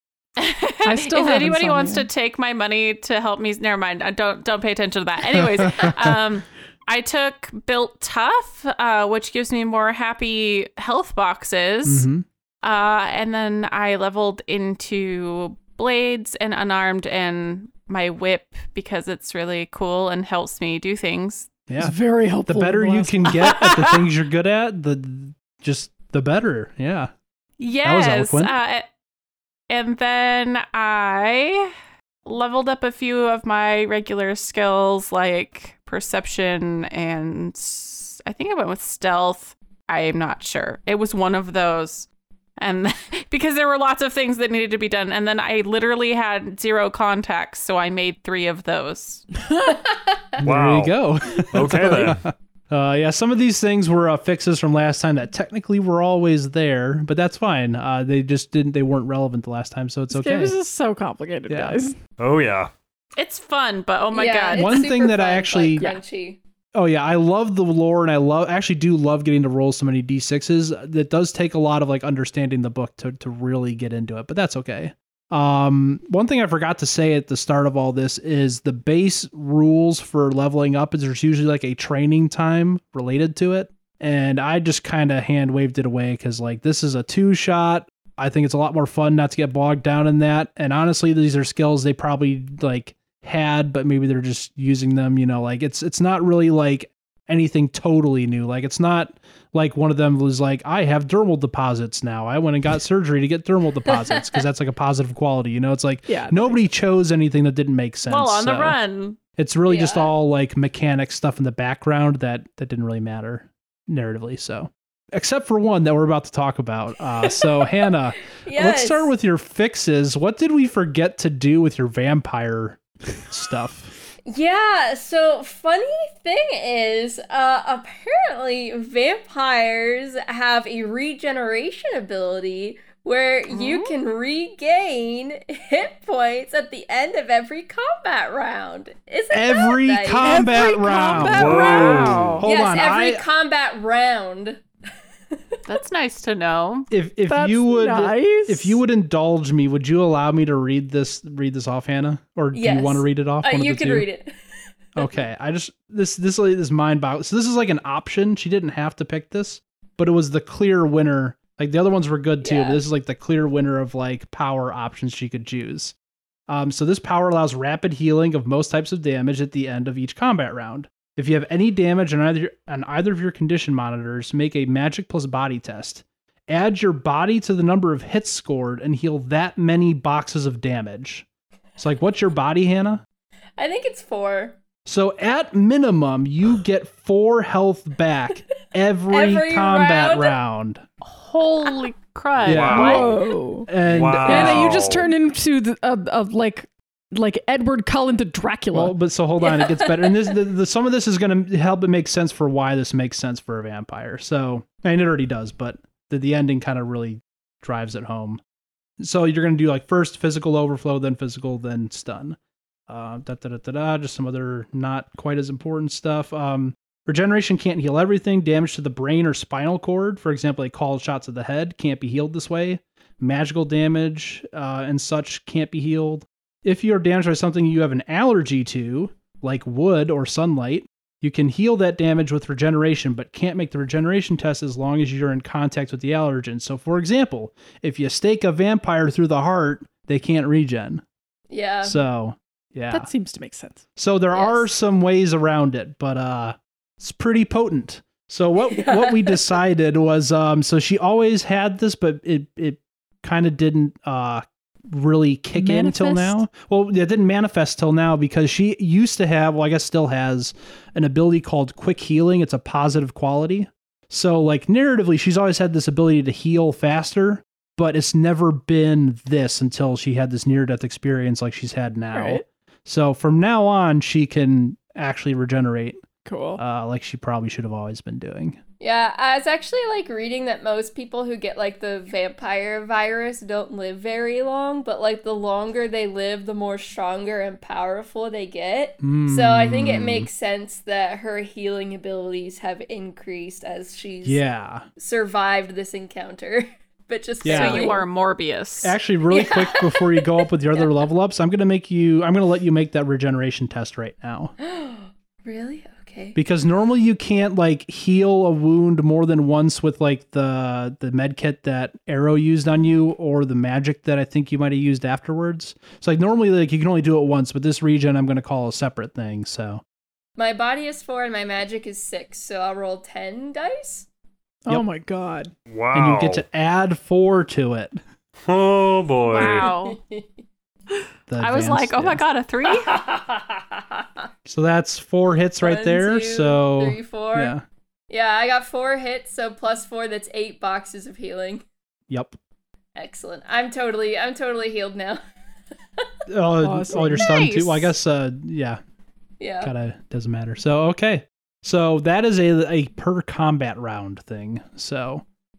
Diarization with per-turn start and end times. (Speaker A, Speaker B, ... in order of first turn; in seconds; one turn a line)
Speaker A: 0.4-12.1
Speaker B: 0.8-2.1
Speaker C: 5.4-6.2
Speaker C: 11.8-12.2
Speaker A: 12.6-21.5
Speaker C: 21.7-27.1
Speaker B: 21.8-23.8
Speaker A: 23.4-23.9
Speaker A: 27.6-28.9
Speaker C: 27.8-28.5
Speaker A: 29.7-31.7
Speaker A: 32.2-49.3
Speaker D: 49.7-50.4
Speaker C: 50.4-60.5
Speaker E: 50.4-52.2
Speaker B: 60.1-62.0
Speaker C: 61.5-61.8
Speaker E: 62.2-62.7
Speaker A: 63.2-64.9
Speaker D: 64.1-66.4
Speaker C: 64.5-65.9
Speaker C: 66.7-108.8
Speaker D: 103.9-104.4
Speaker B: 106.1-106.6
Speaker A: 108.1-109.2
Speaker C: 109.4-123.9
Speaker D: 109.7-110.1
Speaker D: 118.4-119.1
Speaker D: 124.3-144.6
Speaker A: 133.5-133.9
Speaker C: 139.3-141.8
Speaker B: 140.2-142.4
Speaker E: 141.2-142.4
Speaker A: 141.8-142.4
Speaker C: 142.4-143.2
Speaker A: 145.7-146.9
Speaker C: 146.9-154.1
Speaker B: 147.3-148.8
Speaker D: 152.5-154.3
Speaker D: 155.0-155.2
Speaker C: 155.0-165.9
Speaker D: 162.4-162.8
Speaker C: 166.5-181.3
Speaker C: 181.8-183.0
Speaker D: 183.6-184.6
Speaker C: 184.9-190.8
Speaker D: 189.1-190.3
Speaker A: 191.0-193.0
Speaker C: 192.4-193.1
Speaker E: 192.5-193.2
Speaker B: 192.7-193.7
Speaker C: 193.7-195.0
Speaker E: 193.8-195.1
Speaker B: 194.2-198.9
Speaker C: 198.7-208.4
Speaker D: 199.4-200.4
Speaker C: 209.0-212.4
Speaker C: 212.9-241.0
Speaker D: 241.5-242.0
Speaker C: 241.8-243.1
Speaker B: 242.9-243.8
Speaker C: 244.0-276.0
Speaker D: 244.3-244.7
Speaker D: 248.7-249.4
Speaker B: 255.6-256.4
Speaker B: 272.1-272.4
Speaker B: 276.2-276.6
Speaker C: 276.6-278.6
Speaker D: 278.8-294.4
Speaker C: 289.0-290.3
Speaker C: 294.2-294.9
Speaker D: 295.0-298.0
Speaker C: 297.4-297.9
Speaker A: 297.4-299.0
Speaker C: 298.8-304.5
Speaker D: 299.3-300.9
Speaker D: 304.6-306.4
Speaker C: 306.4-319.8
Speaker D: 320.4-324.1
Speaker B: 324.7-325.5
Speaker E: 325.7-326.4
Speaker C: 325.9-328.0
Speaker E: 328.5-329.7
Speaker D: 329.3-330.3
Speaker A: 329.3-330.0
Speaker A: 330.9-333.0
Speaker C: 331.3-332.2
Speaker D: 332.6-334.2
Speaker C: 334.4-337.6
Speaker D: 335.6-337.6
Speaker D: 338.1-341.6
Speaker C: 342.1-342.4
Speaker D: 343.0-345.2
Speaker C: 346.3-348.8
Speaker B: 346.6-347.3
Speaker A: 347.1-347.9
Speaker D: 349.4-349.7
Speaker C: 349.6-355.2